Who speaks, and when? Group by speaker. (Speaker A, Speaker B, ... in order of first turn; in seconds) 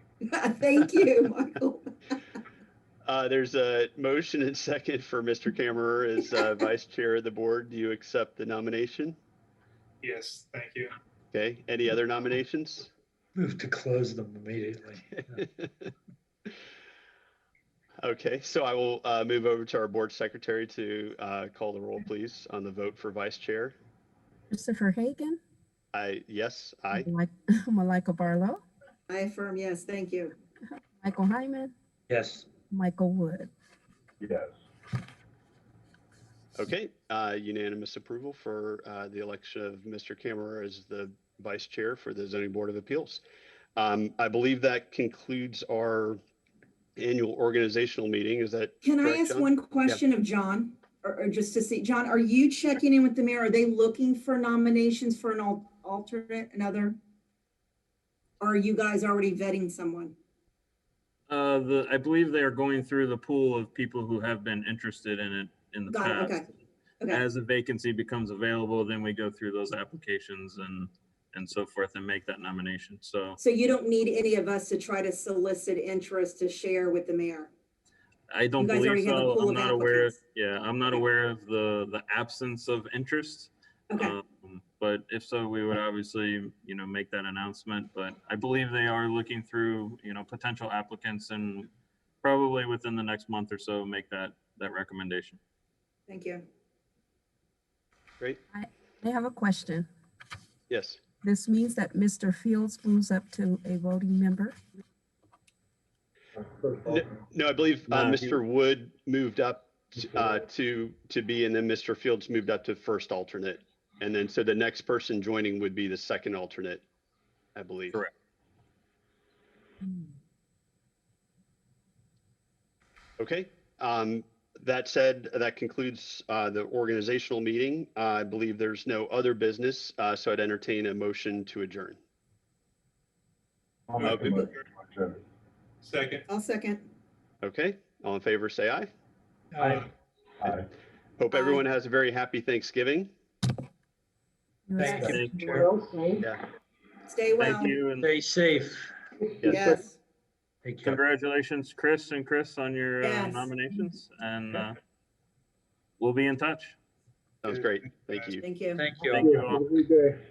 Speaker A: 0.2-1.9, 29.1-30.4, 48.8-57.0, 58.4-60.1, 65.9-66.5, 73.4-77.5, 78.6-80.1, 96.1-96.4, 136.3-136.9, 141.3-141.6, 147.1-147.8, 149.4-149.9, 153.0-153.5, 158.4-158.8
Speaker B: 3.1-9.2, 11.3-12.9, 15.4-15.9, 18.0-23.8, 25.9-27.1, 36.5-43.2, 43.8-46.2, 47.0-50.0, 100.7-101.0, 106.9-116.8, 117.5-118.0, 123.2-132.0, 137.4-138.9, 141.2-143.1, 149.4-149.7, 157.4-158.4
Speaker C: 10.0-10.9, 134.0-134.6, 135.8-136.2, 139.6-139.9, 157.4-158.4
Speaker D: 13.4-15.4, 32.1-32.5, 139.5-139.9, 144.8-145.7, 148.0-148.9, 150.6-151.0, 158.8-159.4
Speaker E: 24.5-25.4, 26.9-28.6, 31.0-31.7, 32.7-33.5, 98.5-99.9, 101.2-104.6, 144.7-146.2
Speaker F: 34.2-34.5, 106.4-107.2, 133.9-135.2, 140.4-140.7, 159.1-160.2
Speaker G: 61.3-66.5, 67.1-73.4, 78.3-91.7, 92.2-95.4, 107.9-108.4, 144.8-145.6, 147.4-148.1, 150.8-154.8, 156.0-156.8, 159.0-159.6